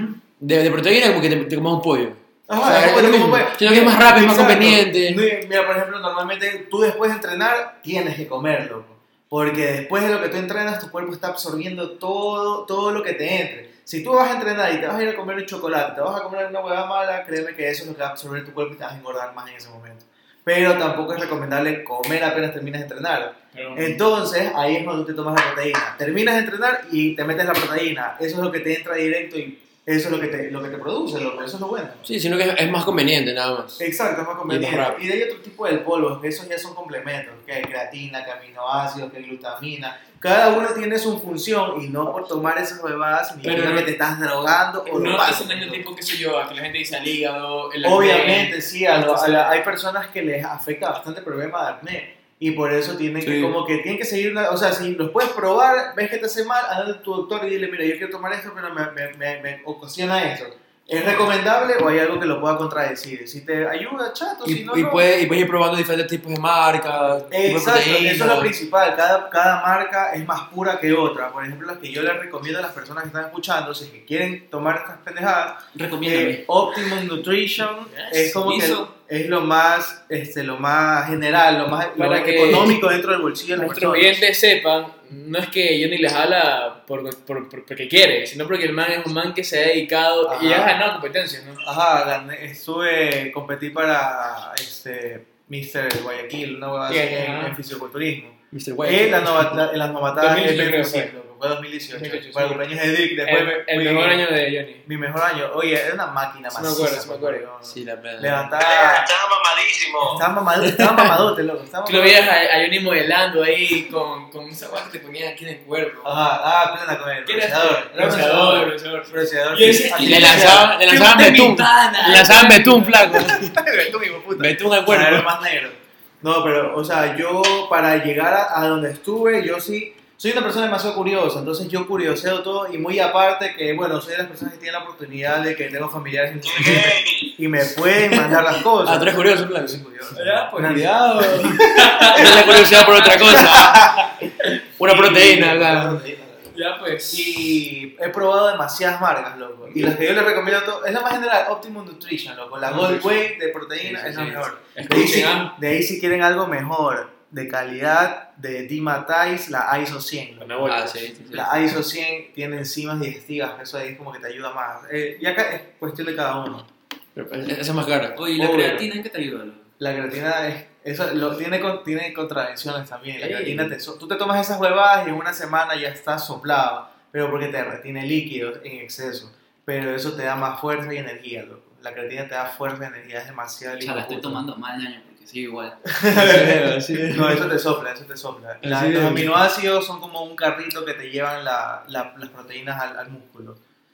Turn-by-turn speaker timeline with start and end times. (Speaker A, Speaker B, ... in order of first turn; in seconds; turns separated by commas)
Speaker A: 0.4-5.2, Speaker B: 2.5-32.0, Speaker C: 23.5-24.0, Speaker A: 32.0-33.8, Speaker B: 33.8-45.8, Speaker A: 34.5-35.0, Speaker C: 43.4-43.9, Speaker C: 44.9-49.6, Speaker B: 47.8-65.1, Speaker A: 53.2-53.6, Speaker A: 64.5-68.5, Speaker B: 67.3-84.2, Speaker D: 75.7-76.4, Speaker C: 77.9-78.3, Speaker D: 78.3-78.9, Speaker C: 82.0-82.9, Speaker C: 83.5-91.6, Speaker B: 90.3-90.8, Speaker B: 91.6-104.3, Speaker C: 96.9-97.6, Speaker A: 98.5-99.6, Speaker C: 100.2-101.1, Speaker C: 101.9-104.9, Speaker B: 104.8-109.1, Speaker C: 106.5-107.5, Speaker A: 107.6-108.5, Speaker E: 108.6-110.2, Speaker B: 110.1-112.3, Speaker A: 110.6-111.2, Speaker C: 111.8-116.1, Speaker B: 116.0-120.8, Speaker C: 117.2-123.2, Speaker A: 120.0-123.6, Speaker B: 123.0-142.3, Speaker A: 124.3-125.3, Speaker E: 136.4-137.3, Speaker A: 138.0-139.9, Speaker C: 140.1-143.6, Speaker A: 142.1-144.1, Speaker B: 143.2-144.1, Speaker A: 144.8-146.0, Speaker B: 144.8-146.5, Speaker C: 146.5-147.5, Speaker B: 147.1-160.8, Speaker C: 149.7-149.9, Speaker C: 152.6-153.3, Speaker C: 153.8-155.5, Speaker C: 160.4-161.3, Speaker A: 160.7-161.7, Speaker B: 161.3-166.7, Speaker A: 167.2-168.2, Speaker D: 168.2-169.7, Speaker B: 168.4-168.9, Speaker B: 169.8-184.4, Speaker C: 173.2-173.7, Speaker D: 183.8-185.8, Speaker B: 185.9-193.6, Speaker A: 186.1-187.5, Speaker A: 188.6-189.4